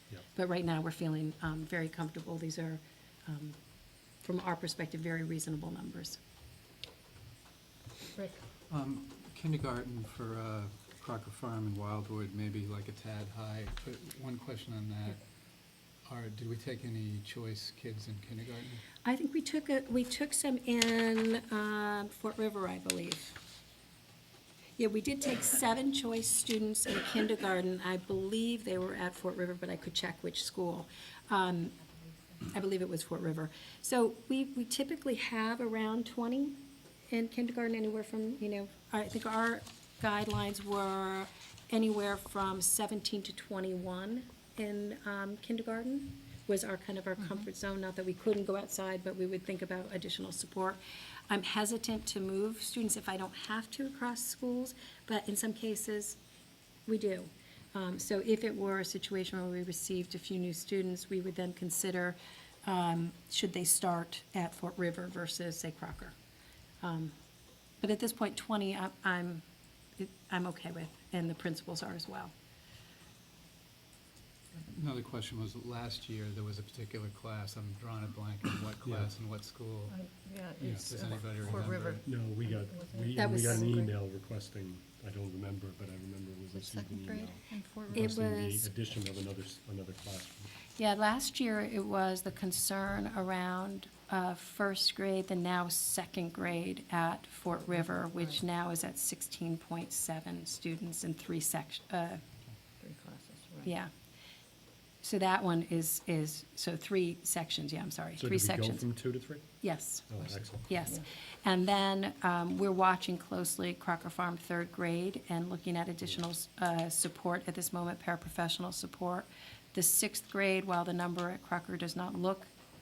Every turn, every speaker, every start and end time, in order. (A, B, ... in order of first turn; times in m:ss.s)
0:00.3-0:03.6 A
0:04.2-0:06.2 A
0:08.7-0:15.2 B
0:16.0-0:18.8 B
0:19.0-0:23.4 A
0:24.8-0:31.8 A
0:32.5-0:56.2 A
0:56.9-1:06.2 A
1:06.8-1:07.1 A
1:07.8-1:09.4 A
1:10.0-1:12.3 A
1:14.6-1:19.9 B
1:18.8-1:19.1 C
1:19.9-1:23.9 D
1:20.6-1:22.0 B
1:20.6-1:30.5 C
1:23.2-1:23.9 A
1:26.5-1:28.2 D
1:27.9-1:28.7 A
1:30.8-1:42.2 A
1:42.8-1:43.7 D
1:43.6-1:43.9 A
1:45.0-1:48.8 A
1:48.2-1:50.7 C
1:49.6-2:02.5 A